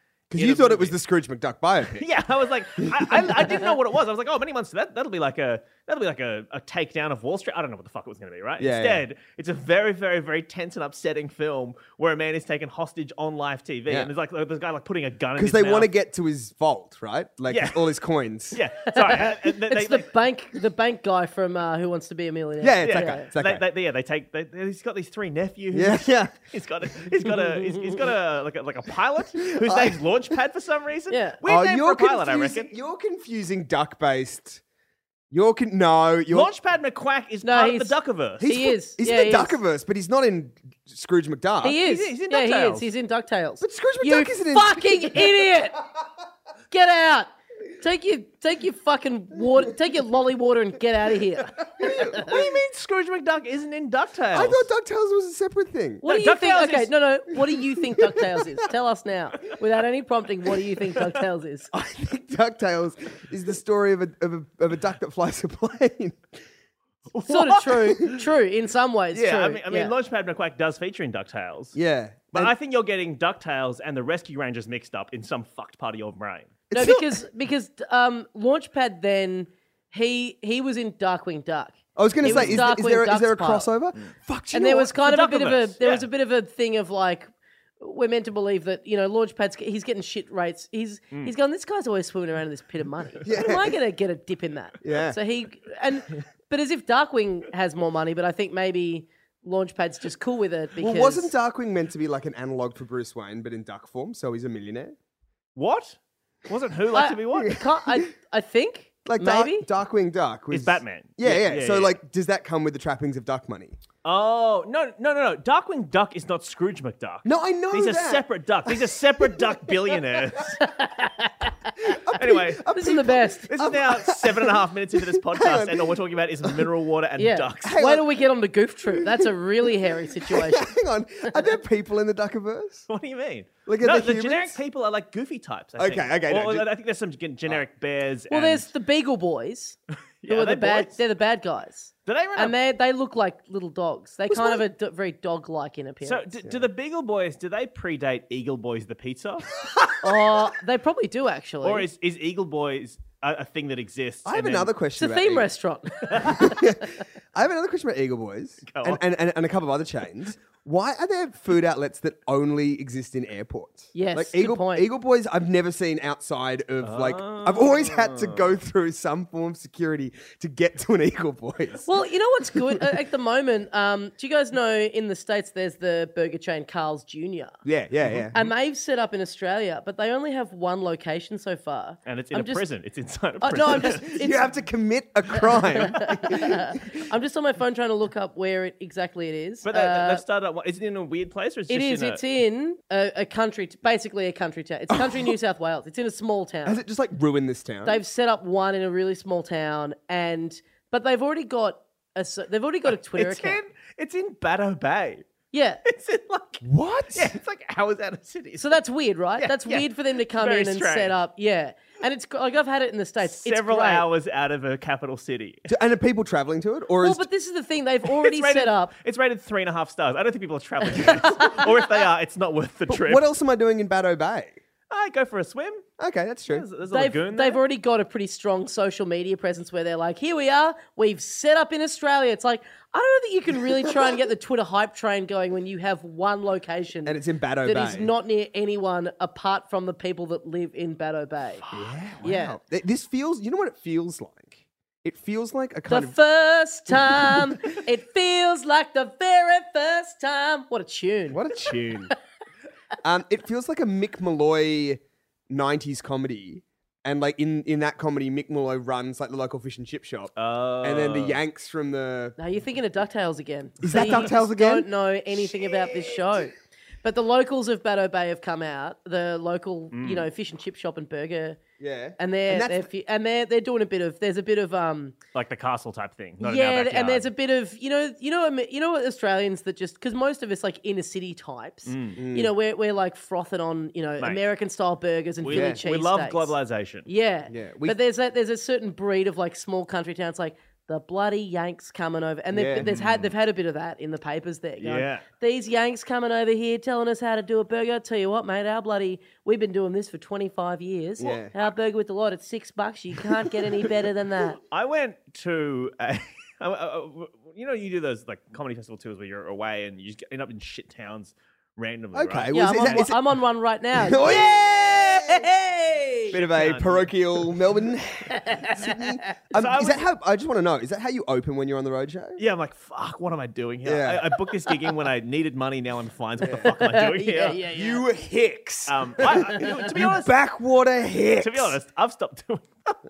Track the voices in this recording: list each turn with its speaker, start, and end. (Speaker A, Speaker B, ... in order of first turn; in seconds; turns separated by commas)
Speaker A: 0.3-2.1, Speaker B: 0.3-0.9, Speaker B: 1.9-15.9, Speaker A: 2.8-3.6, Speaker A: 8.6-9.0, Speaker A: 15.3-18.6, Speaker B: 17.5-17.9, Speaker B: 18.5-20.1, Speaker C: 18.9-23.3, Speaker A: 22.6-23.6, Speaker B: 22.8-32.7, Speaker A: 25.7-26.3, Speaker A: 29.6-30.0, Speaker C: 31.1-31.4, Speaker A: 31.4-34.6, Speaker A: 35.3-36.5, Speaker B: 36.3-38.5, Speaker C: 37.4-39.6, Speaker A: 38.4-41.8, Speaker C: 41.6-45.8, Speaker B: 41.6-42.9, Speaker A: 43.6-45.6, Speaker C: 46.7-52.5, Speaker A: 51.8-52.4, Speaker B: 52.0-54.7, Speaker A: 54.3-56.0, Speaker C: 56.0-61.7, Speaker B: 56.0-56.9, Speaker A: 61.7-66.3, Speaker B: 67.1-68.2, Speaker C: 67.2-69.9, Speaker B: 69.1-71.8, Speaker A: 71.7-72.5, Speaker B: 72.3-76.5, Speaker A: 76.7-77.2, Speaker C: 76.7-83.7, Speaker A: 82.0-84.9, Speaker B: 82.2-82.7, Speaker C: 84.5-87.3, Speaker B: 85.0-86.1, Speaker C: 87.8-101.3, Speaker A: 93.2-93.7, Speaker A: 94.8-95.2, Speaker A: 100.8-104.9, Speaker B: 105.5-107.6, Speaker C: 106.9-109.7, Speaker A: 107.4-108.0, Speaker A: 109.0-113.8, Speaker B: 110.5-112.0, Speaker B: 114.0-120.6, Speaker A: 117.2-120.0, Speaker C: 120.6-122.0, Speaker A: 121.8-126.7, Speaker B: 122.2-122.7, Speaker C: 122.7-123.7, Speaker B: 123.5-127.8, Speaker C: 127.2-130.7, Speaker A: 127.6-128.2, Speaker A: 129.0-129.3, Speaker A: 130.1-132.9, Speaker B: 132.9-138.7, Speaker A: 133.7-134.6, Speaker A: 135.8-136.7, Speaker C: 138.3-139.8, Speaker B: 140.2-141.0, Speaker C: 140.3-146.6, Speaker B: 142.1-142.6, Speaker A: 144.3-144.6, Speaker B: 146.0-150.3, Speaker C: 150.0-151.9, Speaker B: 151.6-154.7, Speaker A: 154.2-155.5, Speaker C: 155.0-157.0, Speaker B: 156.1-156.4, Speaker A: 156.2-171.9, Speaker B: 158.7-159.0, Speaker C: 163.9-164.9, Speaker B: 166.8-168.6, Speaker C: 171.8-177.6, Speaker A: 177.6-178.5, Speaker C: 178.3-182.6, Speaker B: 182.1-184.1, Speaker C: 183.4-184.5, Speaker A: 183.9-186.8, Speaker C: 185.3-190.2, Speaker B: 189.6-192.2, Speaker C: 191.7-196.8, Speaker A: 194.9-195.3, Speaker A: 196.7-198.0, Speaker C: 197.8-203.6, Speaker B: 203.1-205.3, Speaker C: 205.5-205.8, Speaker B: 205.8-208.8, Speaker A: 206.6-207.3, Speaker C: 208.6-214.1, Speaker B: 209.4-211.2, Speaker B: 213.2-215.7, Speaker A: 215.7-217.2, Speaker C: 217.0-218.9, Speaker B: 218.0-223.2, Speaker C: 220.9-221.8, Speaker A: 222.9-224.6, Speaker B: 224.9-225.9, Speaker A: 226.0-226.7, Speaker B: 226.5-227.6, Speaker C: 226.9-241.6, Speaker A: 237.0-238.1, Speaker A: 241.7-246.2, Speaker C: 242.2-242.6, Speaker C: 245.9-252.1, Speaker A: 246.9-247.6, Speaker A: 251.3-252.1, Speaker A: 253.0-262.4, Speaker B: 260.4-261.4, Speaker C: 262.4-271.6, Speaker A: 263.8-264.9, Speaker A: 265.5-266.4, Speaker B: 269.9-270.3, Speaker A: 271.8-272.9, Speaker C: 272.2-275.1, Speaker B: 275.3-277.3, Speaker C: 276.4-286.5, Speaker B: 281.9-282.2, Speaker A: 282.1-282.5, Speaker B: 285.4-287.1, Speaker A: 285.5-285.8, Speaker C: 287.1-304.6, Speaker A: 287.5-288.0, Speaker A: 292.5-292.9, Speaker B: 292.8-293.3, Speaker B: 294.8-295.2, Speaker A: 301.2-301.5, Speaker B: 304.6-313.1, Speaker A: 312.1-313.2, Speaker C: 312.5-316.4, Speaker A: 314.0-315.4, Speaker B: 316.3-317.1, Speaker A: 316.3-322.4, Speaker C: 318.3-319.3, Speaker B: 319.5-320.0, Speaker B: 322.4-327.6, Speaker A: 323.8-324.3, Speaker A: 326.4-326.7, Speaker C: 326.6-328.0, Speaker A: 327.7-331.8, Speaker B: 328.9-330.3, Speaker B: 331.4-333.0